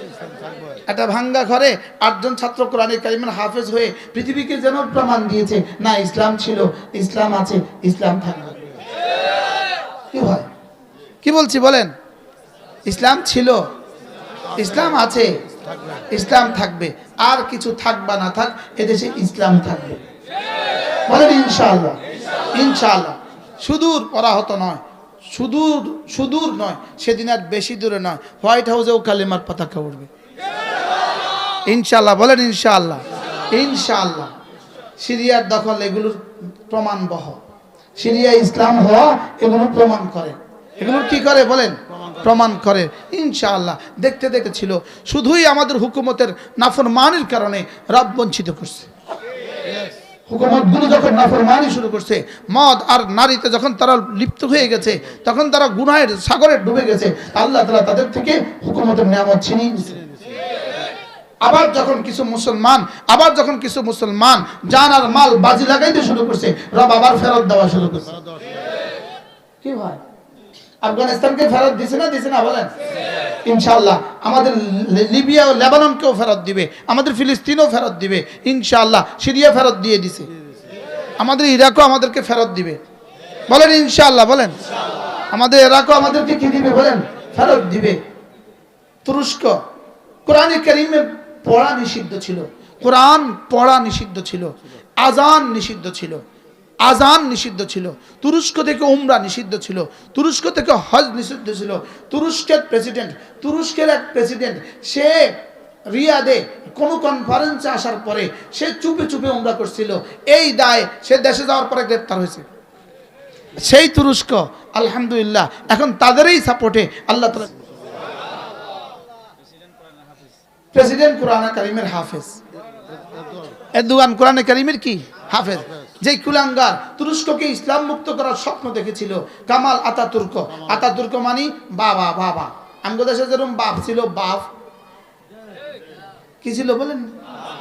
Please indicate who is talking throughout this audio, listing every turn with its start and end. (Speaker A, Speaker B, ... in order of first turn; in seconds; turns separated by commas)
Speaker A: 0.9-8.7, Speaker A: 10.1-10.5, Speaker A: 11.2-11.9, Speaker A: 12.9-13.7, Speaker A: 14.6-15.4, Speaker A: 16.1-20.1, Speaker A: 21.1-22.0, Speaker A: 22.5-30.1, Speaker A: 31.7-34.3, Speaker A: 35.0-37.4, Speaker A: 38.0-48.9, Speaker A: 50.3-60.0, Speaker A: 61.4-68.2, Speaker A: 69.6-70.0, Speaker A: 70.8-72.7, Speaker A: 73.5-80.3, Speaker A: 81.2-82.8, Speaker A: 83.5-84.6, Speaker A: 85.3-88.0, Speaker A: 89.0-89.6, Speaker A: 90.3-96.2, Speaker A: 96.8-112.5, Speaker A: 113.6-117.5, Speaker A: 120.7-122.4, Speaker A: 123.7-134.5, Speaker A: 136.4-137.1